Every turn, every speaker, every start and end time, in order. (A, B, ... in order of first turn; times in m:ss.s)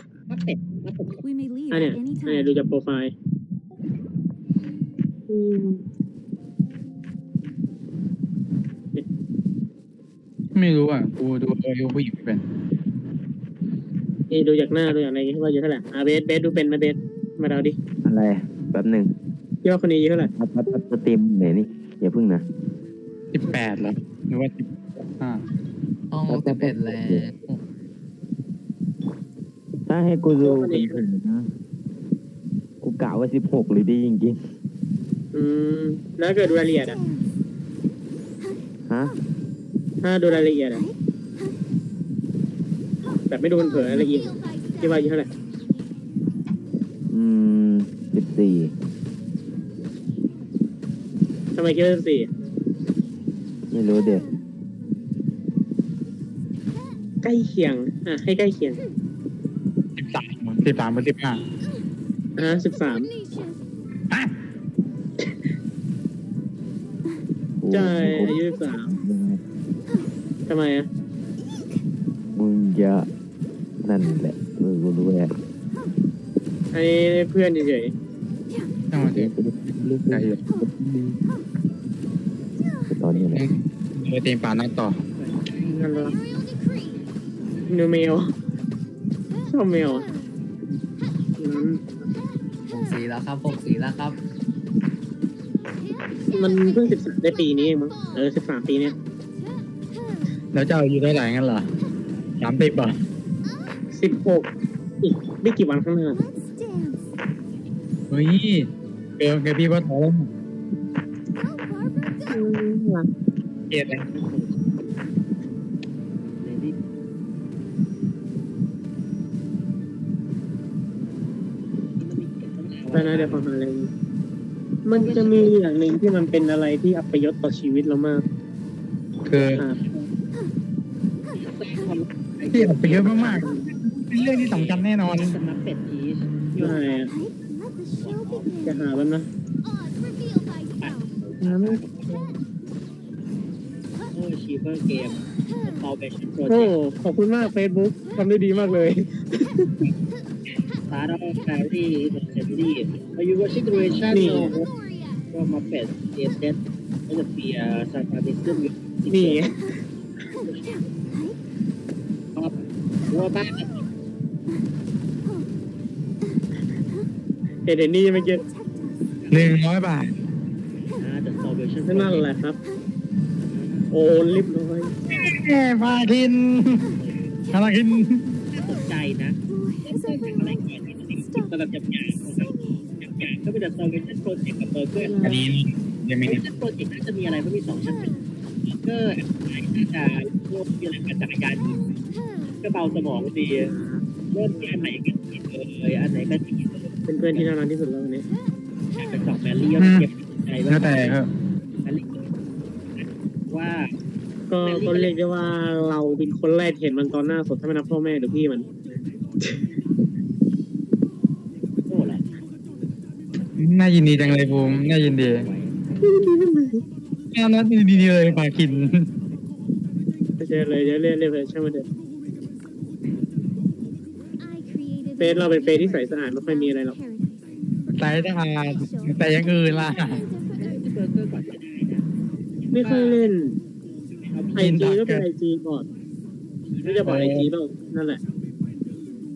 0:00.3-0:01.2 A
0:01.2-0:02.6 B
0:01.7-0:03.1 C
0:05.3-0:05.8 C
0:10.5-0:12.4 D
0:14.3-0:17.8 C
0:18.0-0:19.1 E
0:19.6-0:20.3 C
0:20.4-0:22.4 E
0:23.3-0:25.4 D
0:26.1-0:27.6 F
0:26.3-0:27.3 E
0:29.9-0:31.5 E
0:30.4-0:31.0 C
0:32.8-0:34.5 E
0:35.3-0:37.0 C
0:36.8-0:37.2 B
0:38.9-0:39.1 E
0:40.0-0:40.8 C
0:43.3-0:45.3 C
0:43.7-0:45.1 B
0:43.7-0:44.0 E
0:47.1-0:48.7 E
0:51.5-0:52.3 C
0:53.7-0:54.2 E
0:57.2-0:58.8 C
1:00.0-1:01.4 D
1:02.4-1:03.1 C
1:02.8-1:03.5 B
1:07.6-1:09.4 E
1:07.7-1:08.9 C
1:10.5-1:10.9 C
1:12.4-1:13.1 E
1:13.8-1:15.4 E
1:16.7-1:17.9 C
1:18.9-1:19.3 D
1:19.0-1:21.2 E
1:20.1-1:20.4 D
1:23.0-1:23.4 E
1:23.3-1:25.0 D
1:25.1-1:26.1 A
1:25.7-1:26.2 C
1:26.1-1:27.0 B
1:27.5-1:28.2 A
1:27.7-1:28.3 C
1:29.5-1:30.0 C
1:31.4-1:32.1 C
1:32.7-1:34.2 F
1:36.1-1:38.3 B
1:36.3-1:38.9 C
1:39.4-1:40.2 B
1:40.5-1:41.7 D
1:42.0-1:42.4 A
1:42.4-1:43.0 D
1:43.9-1:44.5 C
1:45.0-1:46.2 C
1:46.2-1:47.1 B
1:48.1-1:50.3 D
1:51.4-1:52.5 B
1:52.3-1:53.1 C
1:53.7-1:54.0 D
1:54.1-1:54.7 A
1:56.2-1:56.7 A
2:01.9-2:03.4 A
2:02.9-2:03.9 C
2:04.8-2:08.2 C
2:04.9-2:05.6 A
2:09.2-2:09.6 D
2:09.3-2:10.1 A
2:09.5-2:09.8 C
2:11.3-2:13.5 A
2:12.5-2:15.4 D
2:13.3-2:13.7 C
2:14.4-2:17.1 A
2:16.5-2:17.1 C
2:17.1-2:18.8 B
2:18.0-2:19.2 A
2:18.6-2:19.3 C
2:19.6-2:21.2 B
2:20.8-2:22.2 A
2:21.4-2:22.3 C
2:24.1-2:26.8 A
2:26.5-2:29.9 C
2:30.9-2:34.7 A
2:34.1-2:35.2 B
2:34.1-2:34.5 C
2:35.3-2:39.5 A
2:39.1-2:39.6 C
2:42.4-2:43.9 A
2:47.6-2:48.4 C
2:49.2-2:49.6 A
2:49.3-2:50.1 D
2:50.9-2:52.3 A
2:51.9-2:52.6 C
2:53.5-2:53.9 A
2:53.9-2:54.9 C
2:55.1-2:56.9 D
2:56.8-2:57.4 A
2:57.5-2:58.3 D
2:58.5-3:05.2 A
2:59.5-3:00.6 B
3:01.2-3:01.5 B
3:02.4-3:02.9 B
3:05.0-3:05.4 C
3:05.2-3:06.4 D
3:06.2-3:11.9 A
3:12.6-3:13.7 A
3:13.6-3:14.9 C
3:14.3-3:17.5 A
3:17.1-3:18.2 C
3:19.0-3:21.2 A
3:19.8-3:20.1 D
3:20.7-3:21.3 D
3:21.8-3:22.3 A
3:23.0-3:23.9 A
3:24.5-3:28.7 C
3:24.6-3:25.2 A
3:31.9-3:32.3 A
3:33.6-3:35.5 D
3:34.2-3:35.8 A
3:36.0-3:36.8 C
3:37.3-3:39.1 D
3:40.4-3:41.9 C
3:44.4-3:50.9 B
3:45.2-3:47.0 C
3:48.0-3:50.2 D
3:50.6-3:52.1 A
3:52.6-3:53.2 A
3:52.7-3:53.6 C
3:54.2-3:54.8 A
3:54.6-3:55.9 C
3:54.6-3:55.3 D
3:56.7-3:57.3 A
3:56.8-3:58.2 C
3:57.0-3:57.5 D